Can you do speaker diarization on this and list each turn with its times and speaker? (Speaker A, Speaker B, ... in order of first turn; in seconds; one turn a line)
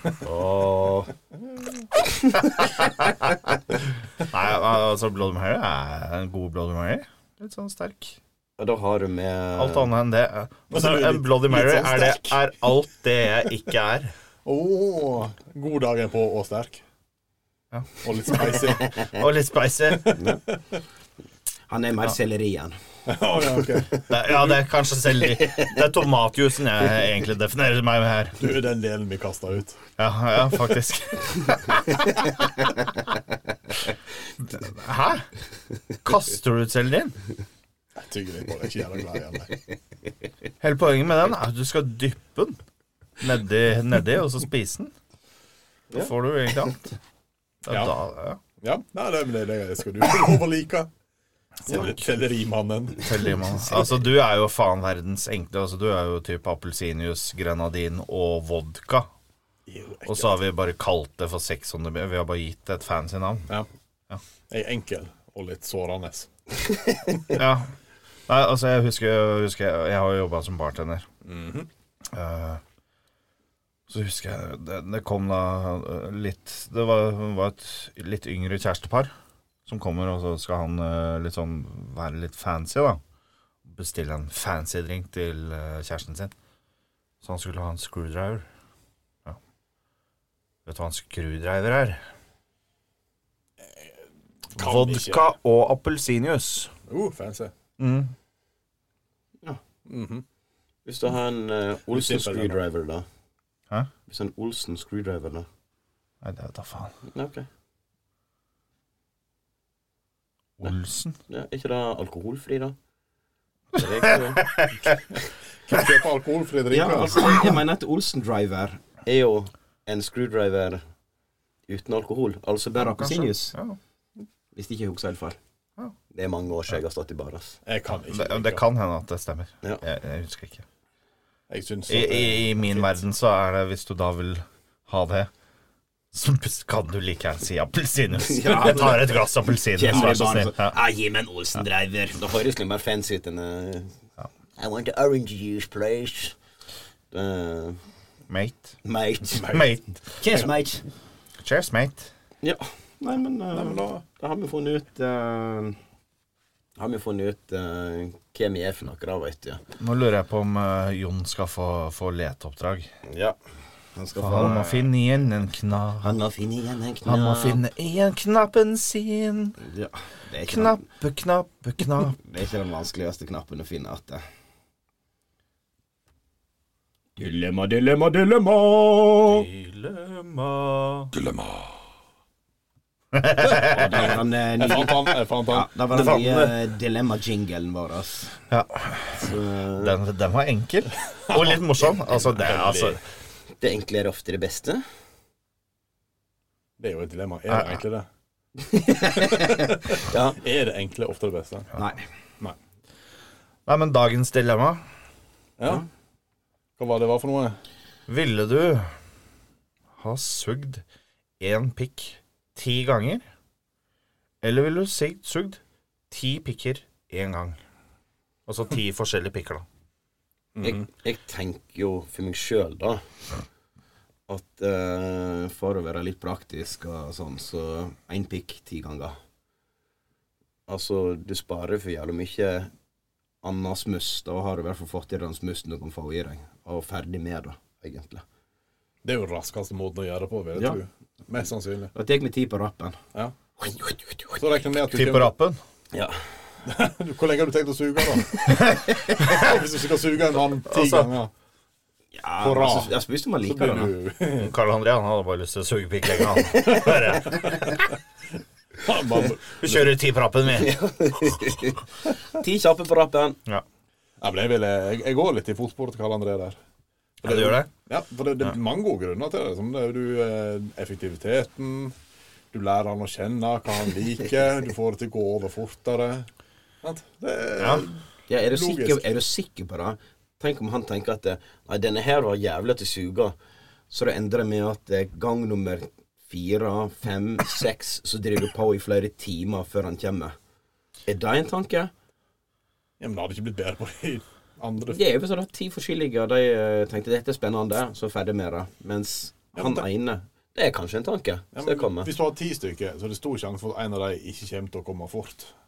Speaker A: 0.2-1.1
Speaker B: 2.4-3.4
Speaker B: 4.2-8.2
Speaker A: 8.6-9.9
Speaker B: 9.6-14.1
Speaker C: 10.7-12.4
Speaker C: 14.4-16.8
Speaker B: 17.7-20.2
Speaker C: 18.0-19.0
Speaker C: 20.0-20.8
Speaker A: 20.1-20.4
Speaker A: 21.7-22.8
Speaker C: 23.1-24.0
Speaker B: 24.1-28.4
Speaker C: 28.4-29.8
Speaker B: 30.0-32.8
Speaker B: 34.4-35.3
Speaker B: 36.0-37.2
Speaker C: 38.0-39.5
Speaker B: 40.6-42.6
Speaker B: 43.2-44.9
Speaker B: 45.9-47.0
Speaker B: 47.6-48.4
Speaker C: 47.7-47.9
Speaker C: 48.6-50.9
Speaker C: 51.6-53.3
Speaker B: 53.0-59.1
Speaker C: 59.6-60.4
Speaker B: 60.0-63.5
Speaker C: 64.5-66.3
Speaker B: 67.3-67.7
Speaker B: 68.3-71.1
Speaker C: 71.2-71.7
Speaker B: 72.1-72.6
Speaker B: 73.9-79.1
Speaker B: 79.7-83.0
Speaker B: 83.6-86.3
Speaker B: 87.2-88.5
Speaker B: 90.7-92.0
Speaker C: 93.6-94.0
Speaker C: 94.5-95.3
Speaker B: 94.6-96.7
Speaker C: 96.9-97.5
Speaker B: 97.8-98.1
Speaker C: 99.8-100.2
Speaker A: 100.8-103.0
Speaker C: 101.9-102.6
Speaker A: 104.1-105.5
Speaker B: 106.2-106.9
Speaker A: 107.1-107.5
Speaker B: 110.6-111.2
Speaker A: 111.3-112.8
Speaker A: 113.7-114.5
Speaker B: 113.7-115.0
Speaker C: 115.1-117.4
Speaker A: 116.7-120.8
Speaker A: 121.7-123.5
Speaker B: 122.8-123.8
Speaker A: 124.5-125.4
Speaker A: 126.1-127.6
Speaker C: 127.6-128.6
Speaker B: 128.1-130.6
Speaker C: 131.5-133.0
Speaker B: 131.9-135.3
Speaker B: 136.1-140.7
Speaker A: 138.2-143.9
Speaker A: 144.6-146.4
Speaker A: 147.1-147.8
Speaker B: 148.3-148.8
Speaker A: 148.8-149.6
Speaker B: 149.3-150.0
Speaker C: 149.4-149.7
Speaker A: 150.2-150.8
Speaker B: 151.4-152.1
Speaker A: 152.4-155.8
Speaker C: 153.5-154.0
Speaker A: 156.8-159.6
Speaker B: 159.8-162.9
Speaker A: 163.1-163.3
Speaker A: 163.9-164.9
Speaker B: 164.2-166.1
Speaker A: 166.0-167.6
Speaker B: 167.0-169.6
Speaker A: 169.6-170.8
Speaker B: 170.4-172.2
Speaker A: 172.2-174.2
Speaker A: 177.2-179.5
Speaker B: 179.3-181.1
Speaker C: 181.1-181.7
Speaker B: 183.1-184.0
Speaker A: 183.5-188.4
Speaker C: 183.7-185.7
Speaker B: 185.9-186.5
Speaker B: 188.5-193.0
Speaker A: 189.1-189.9
Speaker C: 191.1-193.0
Speaker A: 193.6-194.8
Speaker C: 196.8-198.1
Speaker B: 197.5-197.8
Speaker A: 198.6-200.4
Speaker C: 199.1-201.7
Speaker A: 201.8-202.0
Speaker B: 203.7-204.8
Speaker C: 205.6-205.8
Speaker C: 206.8-207.6
Speaker B: 208.1-208.9
Speaker B: 210.0-210.8
Speaker B: 211.4-213.2
Speaker B: 214.4-215.6
Speaker B: 216.1-217.6
Speaker B: 218.5-219.6
Speaker C: 220.6-220.8
Speaker A: 220.6-223.0
Speaker A: 224.3-229.1
Speaker A: 230.7-232.7
Speaker A: 233.4-238.2
Speaker C: 239.0-241.9
Speaker A: 241.9-243.0
Speaker A: 243.6-244.4
Speaker C: 244.4-245.3
Speaker B: 244.8-245.6
Speaker A: 245.9-246.2
Speaker C: 246.6-251.3
Speaker B: 248.5-249.6
Speaker B: 250.7-251.1
Speaker A: 252.1-253.9
Speaker C: 252.4-254.5
Speaker B: 254.3-257.7
Speaker A: 256.5-257.4
Speaker C: 256.8-257.9
Speaker C: 258.8-259.9
Speaker B: 259.5-260.8
Speaker A: 260.5-263.4
Speaker C: 264.2-266.6
Speaker B: 267.2-267.7
Speaker C: 267.2-271.9
Speaker C: 272.5-276.3
Speaker C: 276.8-279.1
Speaker B: 277.6-277.9
Speaker A: 278.3-283.4
Speaker A: 283.9-290.3
Speaker A: 291.1-291.9
Speaker C: 293.0-295.0
Speaker A: 294.9-302.1
Speaker C: 299.5-299.9
Speaker C: 301.5-305.5